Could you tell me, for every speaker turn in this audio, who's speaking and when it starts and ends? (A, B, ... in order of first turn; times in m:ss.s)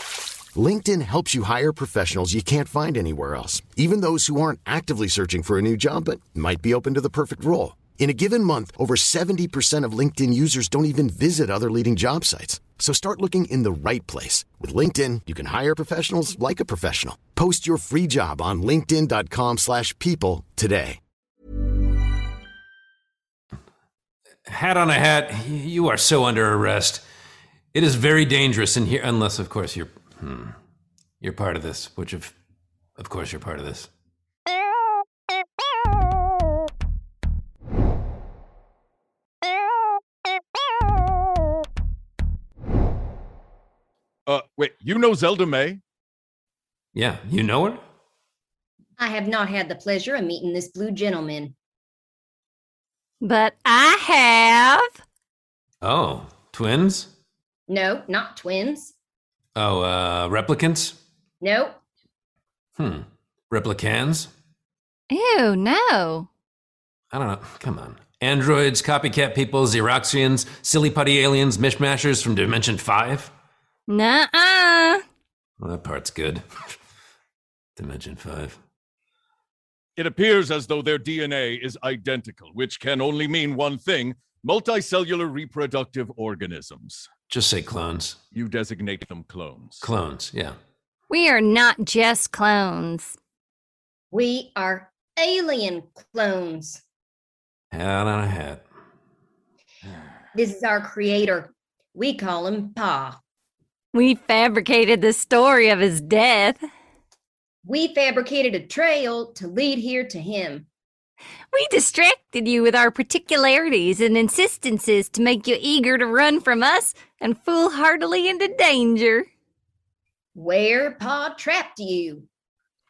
0:00.5-0:21.0 A
0:24.4-0:27.0 B
0:27.7-0:30.6 B
0:31.2-0:32.3 B
0:33.0-0:33.9 B
0:44.2-0:45.8 C
0:46.9-0:47.8 B
0:49.0-0:51.5 D
0:53.2-0:54.9 E
0:55.8-0:57.1 B
0:57.7-0:58.9 D
0:59.6-1:01.0 B
1:01.4-1:01.8 D
1:02.8-1:04.3 B
1:05.1-1:06.3 E
1:07.1-1:13.3 B
1:13.9-1:15.0 E
1:15.6-1:16.8 B
1:17.8-1:18.6 B
1:20.0-1:27.1 C
1:27.3-1:28.2 B
1:28.3-1:29.9 C
1:29.8-1:30.6 B
1:31.1-1:33.2 E
1:34.1-1:36.8 D
1:37.7-1:38.6 B
1:40.3-1:43.2 D
1:43.9-1:46.7 E
1:47.6-1:50.7 D
1:51.5-1:59.3 E
2:00.3-2:02.3 D